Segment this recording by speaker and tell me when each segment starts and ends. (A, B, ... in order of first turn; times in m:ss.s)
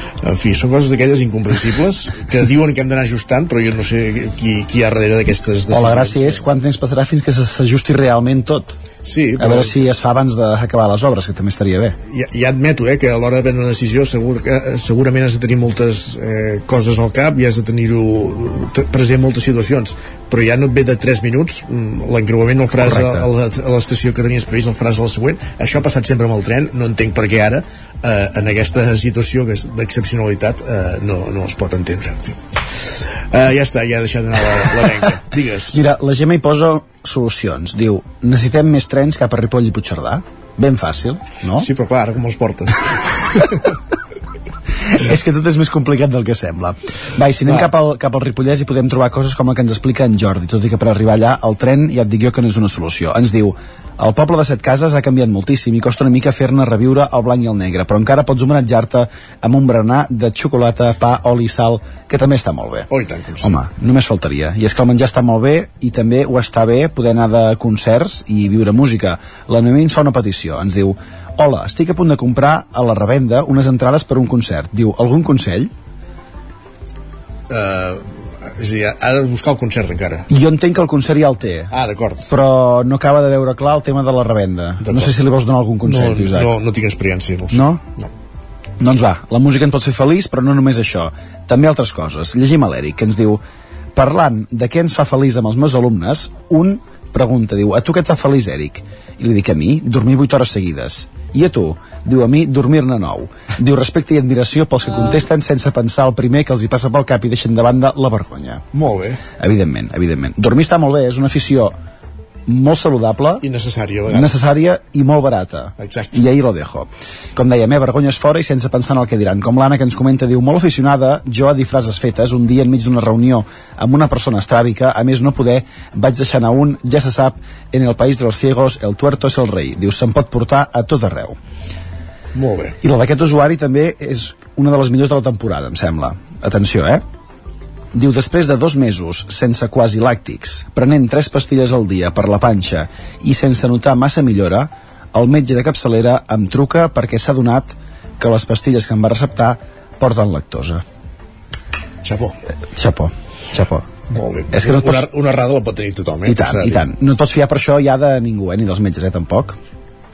0:00.2-0:06.4 A
0:05.7-0:08.7 B
0:09.0-0:09.8 A
0:09.4-0:12.0 B
0:12.1-0:35.8 A
0:22.8-0:23.2 B
0:35.7-0:41.7 B
0:41.6-0:42.8 A
0:45.0-1:02.9 B
1:02.9-1:03.6 A
1:03.4-1:15.7 B
1:17.5-1:20.3 A
1:20.3-1:21.7 B
1:21.7-1:22.3 A
1:22.3-1:26.5 B
1:24.8-1:25.3 A
1:25.8-1:28.1 A
1:27.5-1:27.8 B
1:28.8-1:33.4 B
1:34.0-1:48.6 B
1:48.7-1:49.2 A
1:49.4-1:51.7 B
1:52.5-1:53.4 B
1:53.4-1:54.4 A
1:54.1-2:11.4 B
1:55.8-1:56.3 A
2:12.4-2:12.8 A
2:12.8-2:17.0 B
2:17.9-2:30.8 B
2:32.0-2:32.4 A
2:32.8-2:33.9 B
2:34.1-2:36.9 A
2:34.5-2:35.1 B
2:36.2-2:39.6 B